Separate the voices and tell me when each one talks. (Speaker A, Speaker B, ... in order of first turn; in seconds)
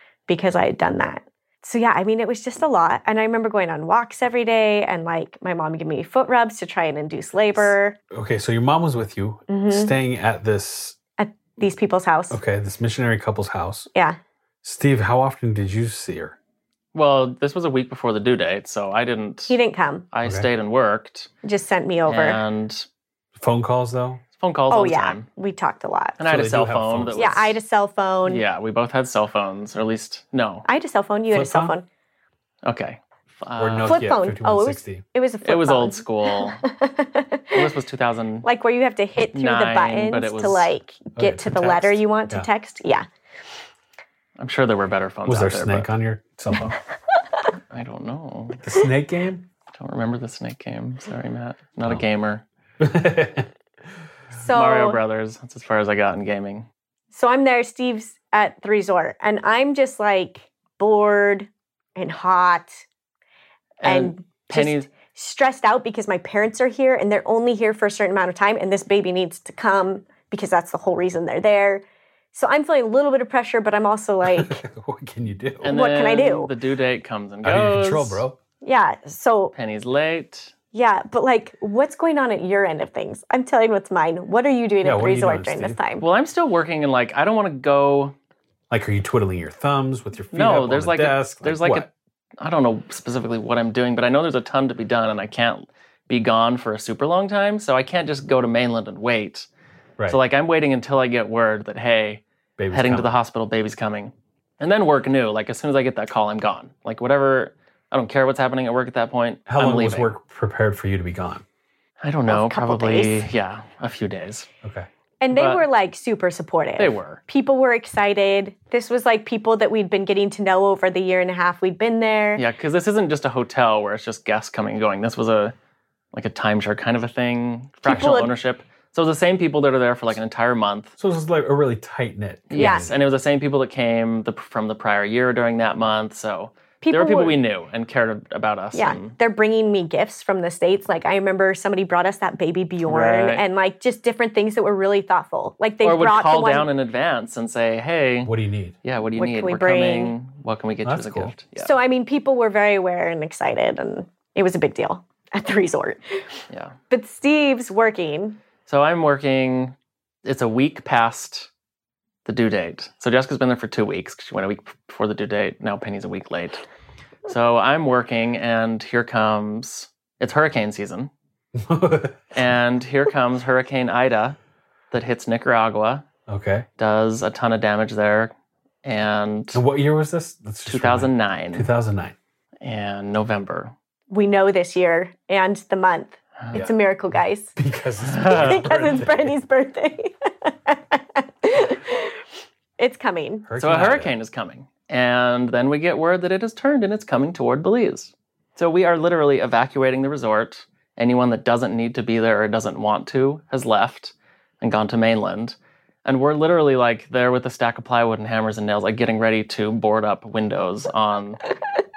Speaker A: 0.3-8.0, 9.5-9.9, 11.2-12.4, 19.5-20.1, 21.4-22.4, 24.7-26.2, 27.1-28.4, 30.6-31.9, 33.8-37.7, 38.4-43.0, 54.3-55.0, 57.1-62.9, 63.9-74.6, 75.6-76.5, 78.6-79.5, 80.7-86.0, 112.3-113.3, 115.2-122.4, 127.8-128.3, 132.6-132.9, 136.8-137.4, 138.7-146.7, 149.2-150.1, 151.6-156.2, 156.9-158.4, 184.1-187.6, 188.3-192.2, 192.8-193.5
Speaker B: 8.1-11.0, 12.3-13.9, 14.6-16.4, 23.4-24.2, 26.2-27.5, 31.3-31.8, 33.6-35.0, 41.1-42.5, 45.3-46.8, 48.6-49.5, 52.8-53.5, 74.2-75.7, 77.4-78.4, 84.8-85.8, 88.7-91.9, 102.6-103.1, 109.5-111.4, 131.0-132.9, 148.2-148.8, 150.8-151.3, 171.6-172.3, 176.3-176.7, 179.5-182.1, 187.6-189.3, 193.5-194.1
Speaker C: 16.9-19.6, 20.1-21.3, 22.1-22.9, 24.4-25.3, 26.2-27.6, 28.2-30.6, 32.6-34.1, 35.4-36.6, 37.5-38.5, 39.3-40.7, 44.4-45.9, 47.7-48.6, 49.8-52.4, 54.5-56.7, 63.8-64.9, 75.6-78.2, 79.5-80.5, 86.0-88.1, 90.3-91.9, 92.4-99.5, 100.1-110.1, 112.0-114.5, 115.3-115.6, 116.8-117.2, 122.4-125.5, 126.1-130.9, 132.5-139.1, 142.8-143.4, 145.8-148.3, 148.8-151.7, 156.5-156.8, 158.7-161.5, 162.2-166.6, 167.2-171.1, 172.3-174.4, 174.9-176.1, 176.8-178.3, 178.8-179.6, 180.7-181.7, 182.6-183.7, 188.1-188.7, 193.6-211.4